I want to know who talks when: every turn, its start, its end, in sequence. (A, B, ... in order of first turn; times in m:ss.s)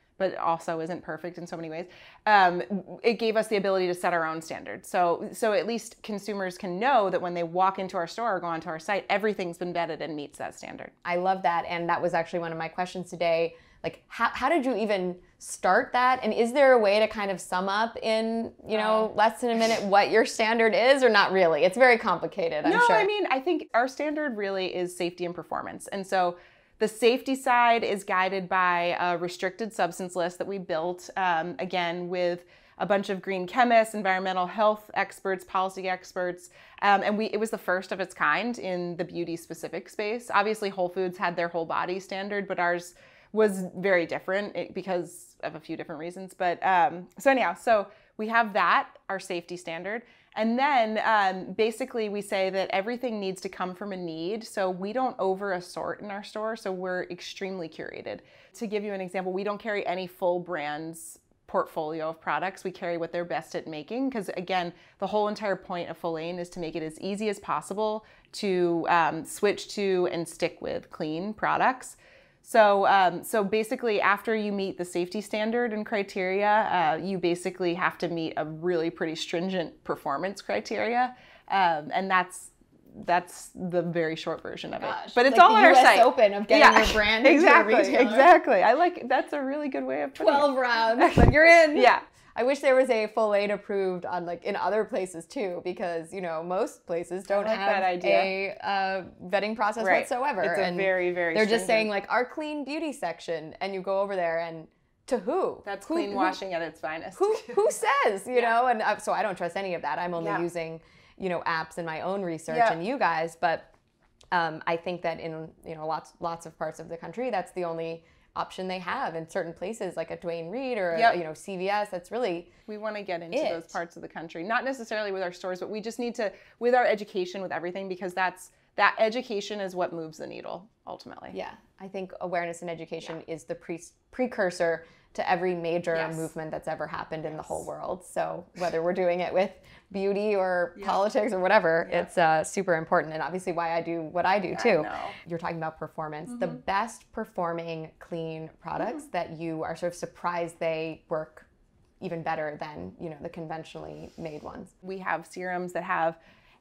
0:00.2-0:10.9 A
0:11.0-0:23.1 B
0:18.7-0:19.1 A
0:22.6-1:32.0 A
1:24.8-1:28.3 B
1:30.2-1:46.4 B
1:37.3-1:38.3 A
1:39.8-1:41.9 A
1:45.6-1:47.6 A
1:47.2-1:53.7 B
1:50.2-1:50.4 A
1:52.5-1:52.8 A
1:54.3-2:02.5 B
2:02.7-2:11.4 A
2:03.3-2:03.8 B
2:11.3-2:31.5 B
2:15.9-2:16.3 A
2:17.3-2:17.6 A
2:24.5-2:25.2 A
2:26.3-2:26.6 A
2:32.0-2:34.7 B
2:34.8-2:36.2 A